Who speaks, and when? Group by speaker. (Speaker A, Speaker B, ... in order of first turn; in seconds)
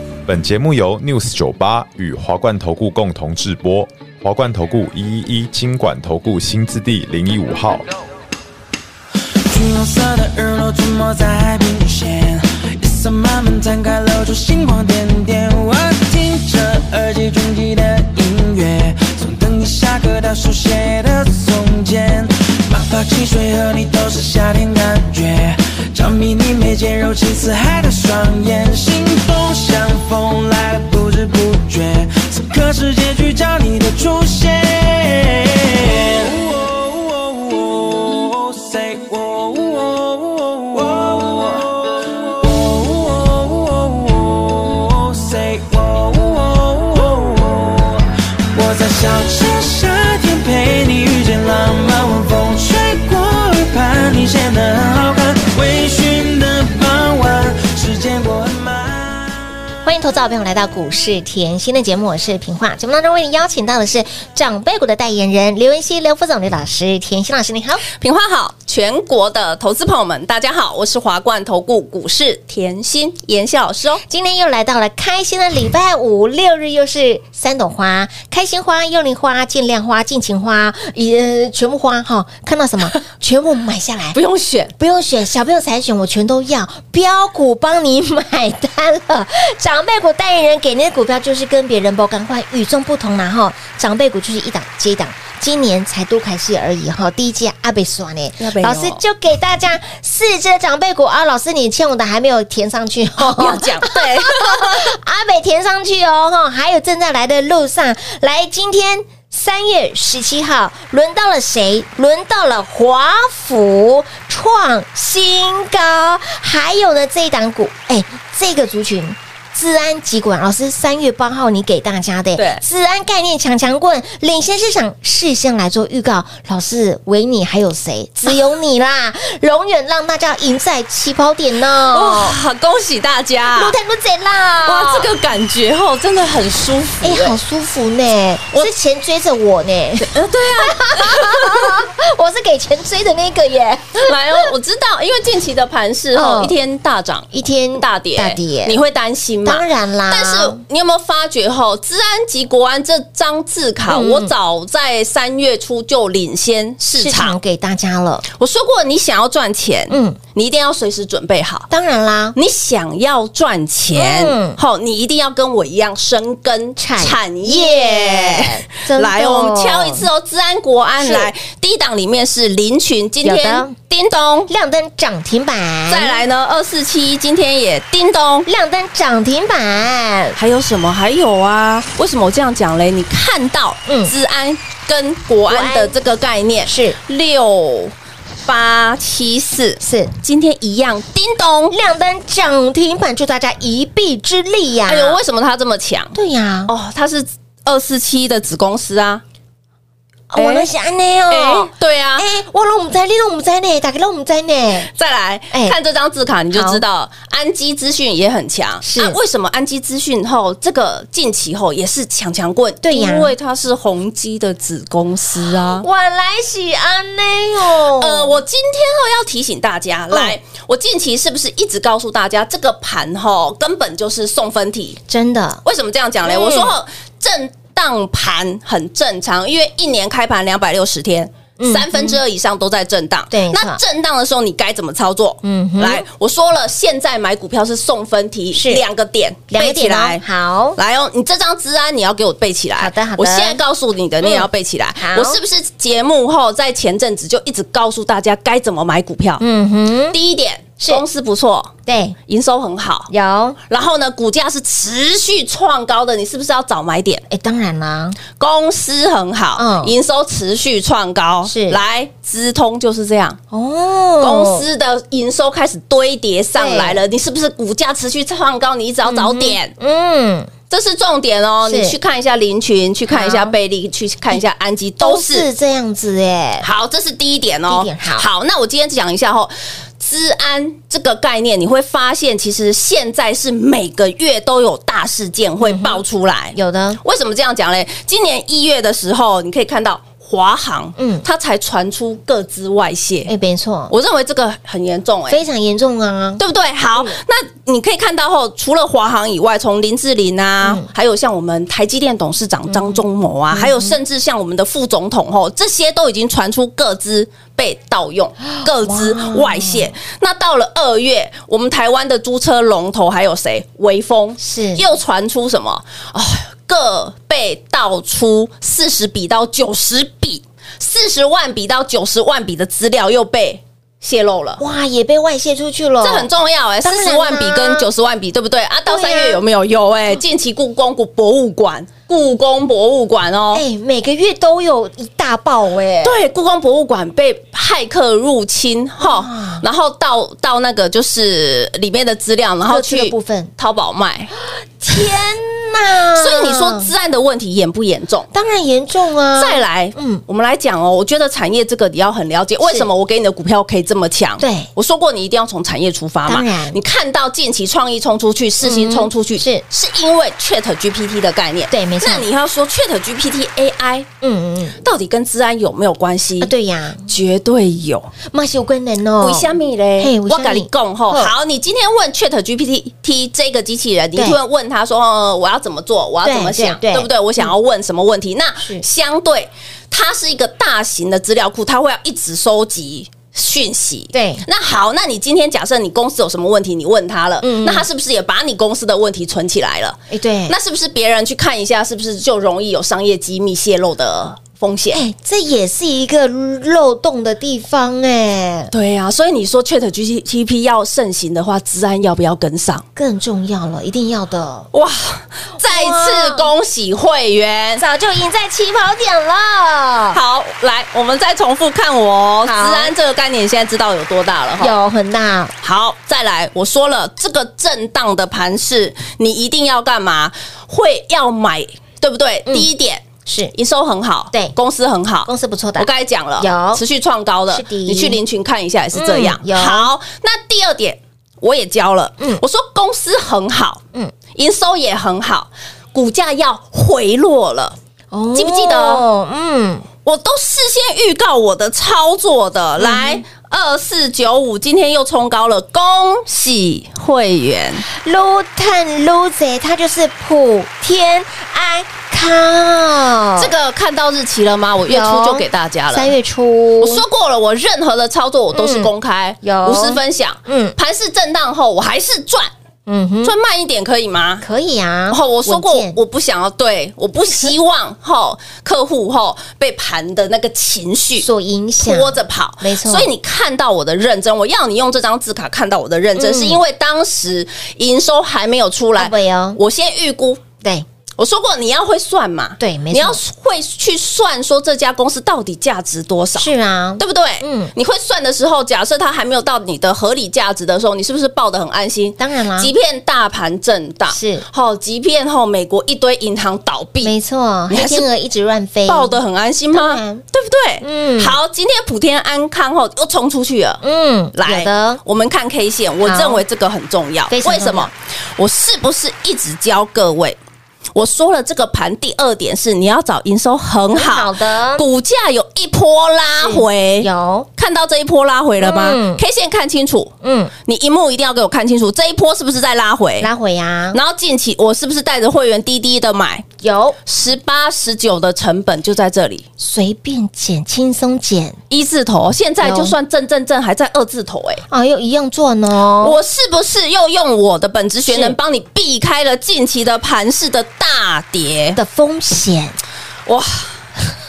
Speaker A: 0.3-7.9
Speaker B: 9.5-59.5
Speaker C: 59.8-67.8, 74.1-84.2, 84.8-132.4, 133.5-135.1, 137.0-144.5, 146.2-146.5, 147.3-148.8, 149.4-150.6, 153.9-154.3, 156.9-158.2, 159.9-160.2, 161.7-162.4, 163.9-164.6, 166.8-170.1, 171.0-171.3, 173.2-173.8, 174.5-176.2, 178.5-180.4, 183.9-184.1, 185.5-185.9, 186.7-187.0, 189.8-190.1, 191.7-195.2, 196.1-196.7, 200.3-204.9, 205.5-205.8, 206.5-206.8, 208.8-209.2, 212.8-213.3, 215.6-218.4, 225.1-225.6, 226.2-226.7, 231.6-232.2, 233.3-233.8, 235.4-236.1, 238.5-238.8, 239.5-240.8, 242.8-243.6, 244.2-245.4, 249.4-250.2, 251.9-252.2, 253.1-253.6, 257.3-258.2, 259.6-259.9, 261.5-261.8, 263.5-264.6, 266.6-267.0, 269.1-270.5, 271.6-272.0, 273.1-273.6, 275.0-276.7, 277.7-278.3, 285.6-286.0, 286.5-287.0, 291.0-291.2, 293.3-293.9, 295.3-296.4, 300.6-300.9, 302.7-304.0, 308.6-309.9, 314.4-314.8, 324.6-326.3, 326.8-327.9, 328.9-329.4, 333.5-336.2, 339.0-339.6, 342.7-343.5, 344.8-346.9, 348.3-350.2, 352.6-352.9, 354.4-354.7, 356.3-356.8, 358.6-359.6, 361.7-362.3, 364.2-364.8, 366.4-367.1, 368.2-371.3, 376.2-377.5, 384.1-384.4, 387.4-387.9, 390.1-390.6, 394.9-398.7, 403.0-404.7, 405.6-406.5, 407.8-410.2, 412.4-412.9, 414.6-415.5, 423.3-423.5, 425.3-426.8, 427.5-428.2, 428.9-429.9, 438.1-439.9, 442.8-443.2, 447.9-453.5, 454.9-457.0, 458.5-460.8, 462.9-463.3, 464.4-466.0, 471.2-473.1, 476.2-476.6, 479.0-479.6, 480.6-480.9, 482.6-483.2, 486.4-487.7, 492.2-492.7, 494.1-494.4, 497.0-499.2, 499.7-500.2, 500.8-501.4, 503.8-505.0, 506.0-506.4, 507.3-507.9, 513.9-514.9, 516.4-517.5, 518.6-519.2, 520.2-520.5, 523.2-524.0, 526.6-527.0, 529.6-531.6, 532.6-533.0, 534.7-536.2, 538.1-538.4, 541.8-542.8
Speaker D: 68.0-74.0, 84.1-84.7, 98.4-99.0, 103.2-104.9, 122.4-122.6, 131.9-133.8, 134.7-137.4, 140.0-141.8, 144.0-157.4, 158.3-161.7, 162.4-174.5, 175.9-178.5, 180.4-187.9, 188.5-191.8, 194.9-196.1, 196.7-199.2, 200.3-200.7, 201.3-202.3, 204.9-215.8, 217.7-225.0, 225.6-240.2, 240.8-249.4, 250.1-251.7, 252.3-253.1, 253.7-257.2, 258.4-263.4, 264.2-269.7, 270.7-275.5, 276.6-293.3, 293.9-295.4, 296.4-324.6, 326.0-333.6, 336.0-344.3, 346.1-348.3, 349.4-364.1, 364.8-366.5, 367.1-368.1, 369.2-395.0, 398.7-402.9, 404.7-407.8, 410.1-414.8, 415.6-433.8, 434.3-437.8, 438.3-439.0, 440.0-447.9, 453.4-456.1, 456.8-462.5, 463.2-464.4, 465.1-471.3, 471.8-480.4, 481.2-497.1, 497.7-498.1, 498.9-503.8, 504.4-510.4, 510.9-520.1, 520.7-523.3, 523.9-526.5, 527.1-529.5, 531.7-534.6, 536.0-541.8, 543.3-543.8